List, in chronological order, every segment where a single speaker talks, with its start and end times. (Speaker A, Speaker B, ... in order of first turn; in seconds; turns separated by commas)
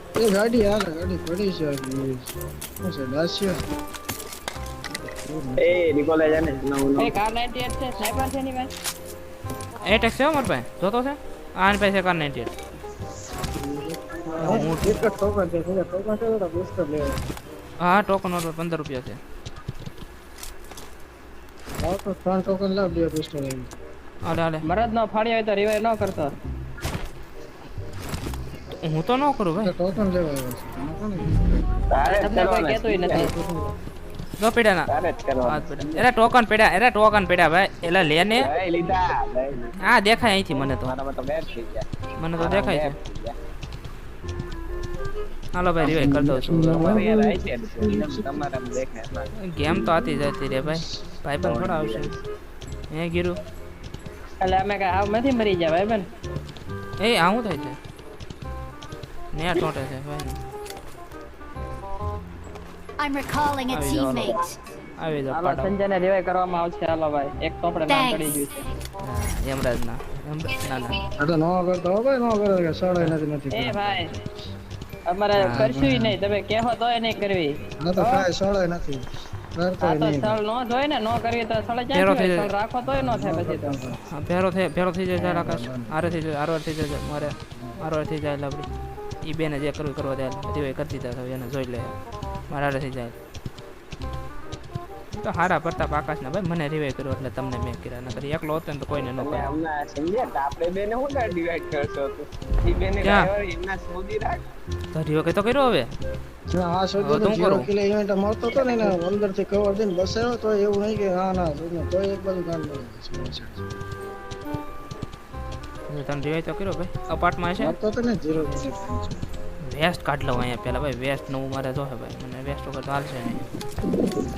Speaker A: 0.1-3.6, Speaker A: 5.3-5.8, Speaker B: 5.6-7.1, Speaker C: 7.0-8.7, Speaker D: 9.9-12.5, Speaker A: 13.6-17.3, Speaker D: 14.4-15.1, Speaker D: 17.8-19.2, Speaker A: 21.8-23.8, Speaker D: 24.2-24.6, Speaker C: 24.7-26.3, Speaker D: 28.8-29.8, Speaker A: 29.6-32.1, Speaker B: 31.9-33.3, Speaker C: 32.2-33.3, Speaker A: 33.1-33.7, Speaker D: 34.4-34.9, Speaker B: 34.9-36.0, Speaker D: 35.5-38.5, Speaker B: 38.4-39.7, Speaker D: 39.8-40.9, Speaker B: 40.9-41.9, Speaker D: 42.2-43.0, Speaker B: 42.4-43.4, Speaker D: 45.5-47.0, Speaker A: 45.8-48.2, Speaker B: 46.7-49.3, Speaker D: 49.4-52.1, Speaker B: 51.4-52.2, Speaker D: 52.9-53.4, Speaker C: 54.4-56.0, Speaker D: 57.0-57.8, Speaker D: 59.3-60.4, Speaker E: 63.0-64.5, Speaker D: 63.7-64.4, Speaker D: 65.0-65.7, Speaker C: 65.3-68.5, Speaker E: 67.9-68.3, Speaker D: 69.0-71.0, Speaker A: 71.2-74.1, Speaker C: 73.5-74.1, Speaker C: 75.1-78.3, Speaker D: 75.4-75.7, Speaker A: 75.5-76.2, Speaker A: 77.8-80.4, Speaker C: 79.8-83.8, Speaker D: 81.9-82.5, Speaker A: 82.8-84.0, Speaker D: 84.1-88.7, Speaker A: 85.2-86.0, Speaker D: 89.2-91.9, Speaker D: 92.5-93.2, Speaker D: 95.1-99.5, Speaker B: 99.1-104.4, Speaker D: 103.0-103.3, Speaker D: 104.9-105.9, Speaker A: 106.5-113.7, Speaker D: 107.0-107.7, Speaker D: 115.9-117.8, Speaker A: 117.6-119.3, Speaker D: 119.6-123.4